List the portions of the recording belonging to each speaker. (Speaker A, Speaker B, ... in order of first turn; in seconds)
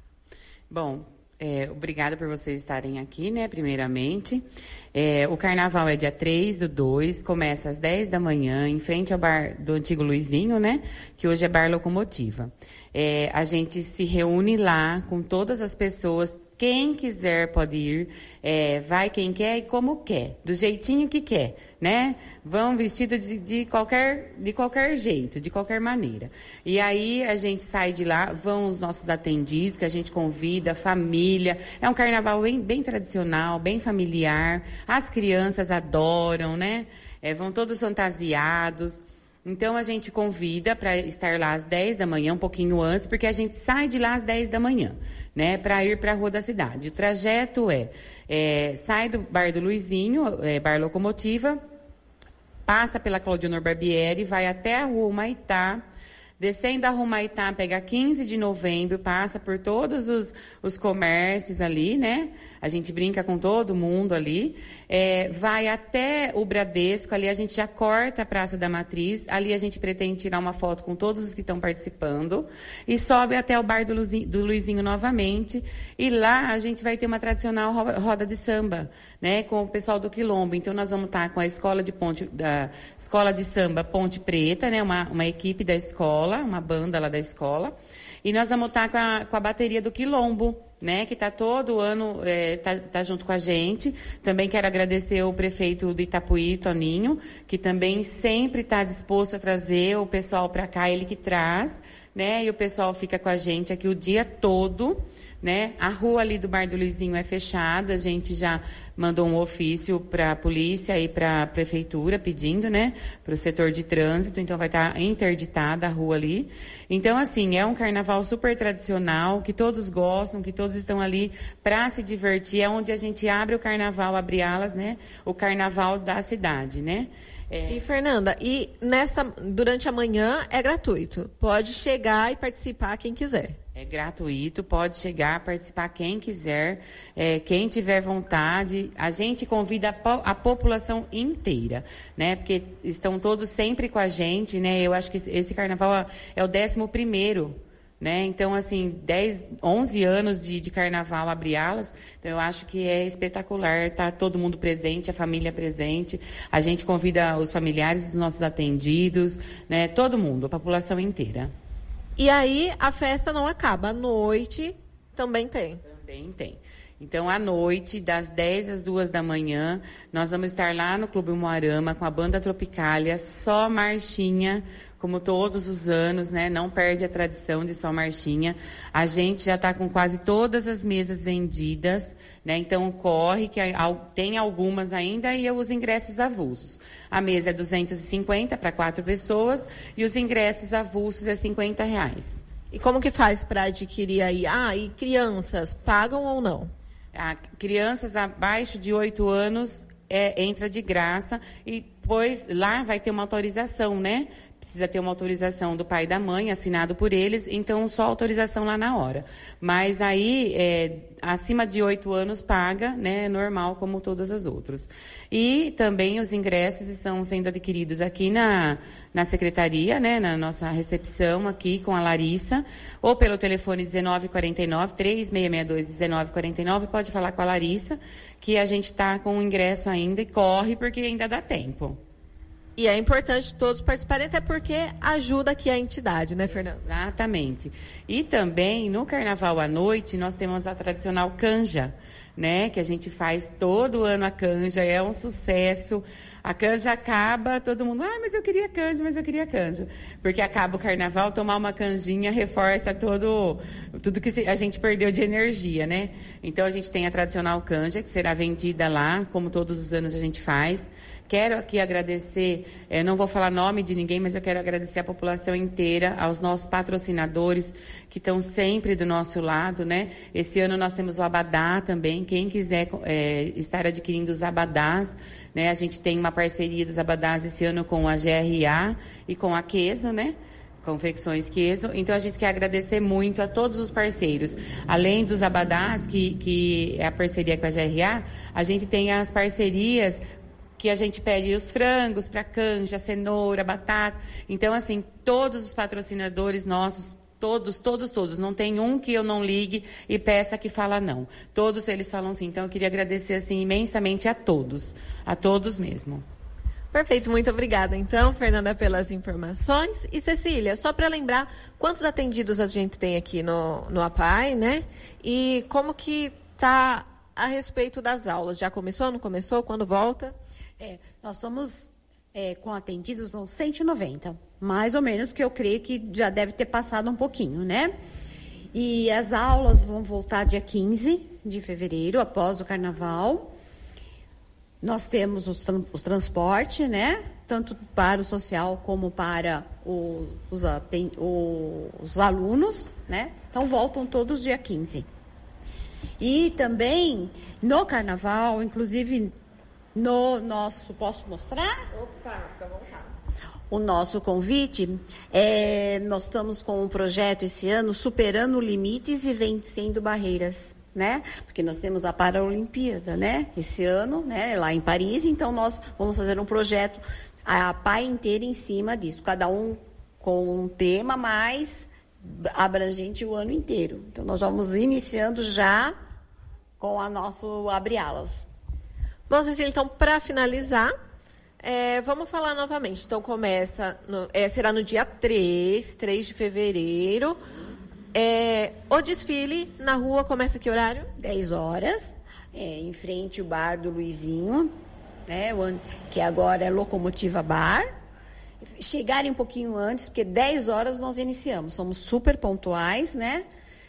Speaker A: 0.7-51.6, 52.6-55.8, 56.4-127.8, 133.7-161.5, 165.8-192.4, 197.1-232.0, 236.5-290.2, 290.8-306.2
Speaker B: 127.7-133.6, 162.2-165.8, 192.7-196.7, 232.8-236.8, 306.9-320.3, 352.0-352.9, 379.3-380.9, 381.6-387.4, 388.1-391.1
Speaker C: 320.8-327.9, 328.7-333.5, 334.8-345.1, 346.2-349.3, 349.9-351.9, 353.7-376.0, 376.8-378.5, 391.2-394.7, 395.3-397.9, 398.6-403.4